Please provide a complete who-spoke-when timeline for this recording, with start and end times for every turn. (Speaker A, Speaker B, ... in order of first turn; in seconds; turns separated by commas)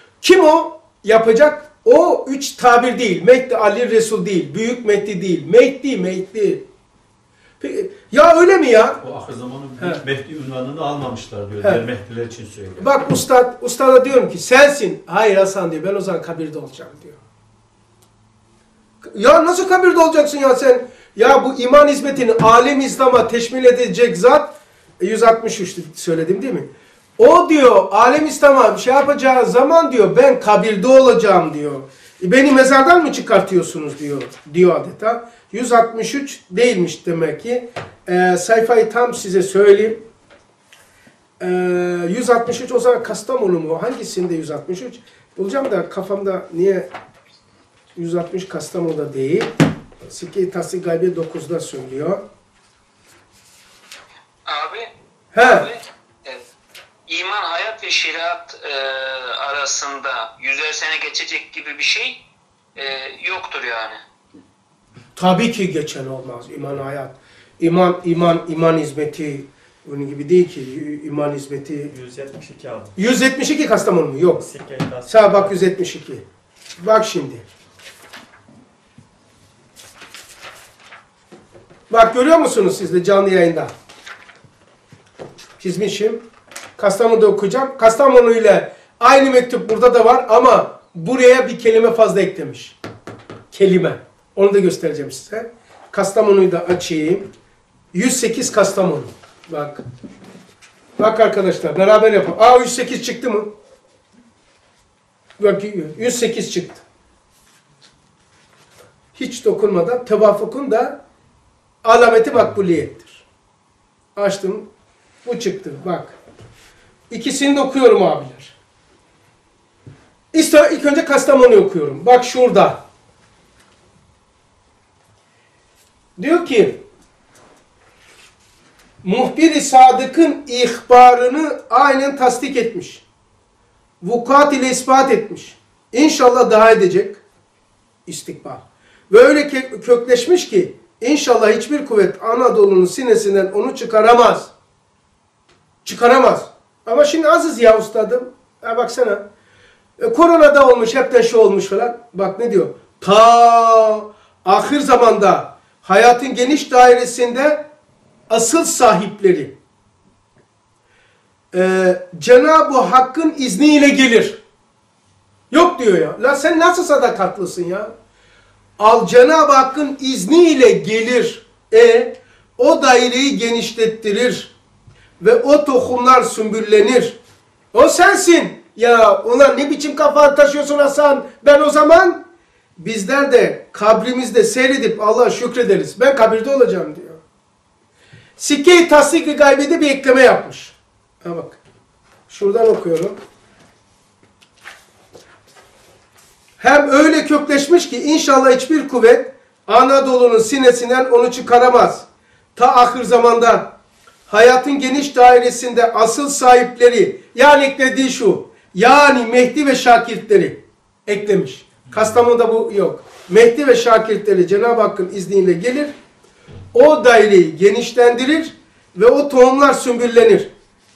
Speaker A: 0.2-6.6, Speaker A: 7.6-9.0, Speaker B: 9.0-12.9, Speaker A: 12.8-17.2, Speaker A: 19.0-40.0, Speaker A: 41.4-46.9, Speaker A: 47.9-49.5, Speaker A: 50.1-52.2, Speaker C: 54.5-56.4, Speaker A: 55.3-55.7, Speaker C: 57.1-62.2, Speaker C: 62.8-64.0, Speaker A: 65.2-71.9, Speaker D: 71.9-72.9, Speaker A: 73.0-74.5, Speaker D: 74.3-75.6, Speaker A: 75.0-76.2, Speaker A: 76.8-77.4, Speaker A: 81.9-83.7, Speaker A: 85.6-86.2, Speaker A: 86.8-92.8, Speaker A: 93.5-97.3, Speaker A: 97.9-99.8, Speaker A: 101.0-103.5, Speaker A: 105.4-106.8, Speaker A: 109.1-111.0, Speaker A: 111.8-113.2, Speaker A: 114.2-114.7, Speaker A: 115.2-116.2, Speaker A: 117.1-118.5, Speaker A: 120.3-122.8, Speaker A: 126.2-126.8, Speaker A: 129.0-133.0, Speaker A: 134.0-137.2, Speaker A: 138.1-144.5, Speaker A: 145.8-149.2, Speaker A: 150.0-157.6, Speaker A: 158.3-159.5, Speaker A: 161.5-164.4, Speaker A: 165.5-167.9, Speaker A: 168.8-174.5, Speaker A: 175.2-177.2, Speaker A: 177.7-182.2, Speaker A: 182.8-187.2, Speaker A: 188.4-191.6, Speaker A: 192.3-193.2, Speaker A: 196.6-203.7, Speaker A: 204.3-215.9, Speaker A: 216.7-220.5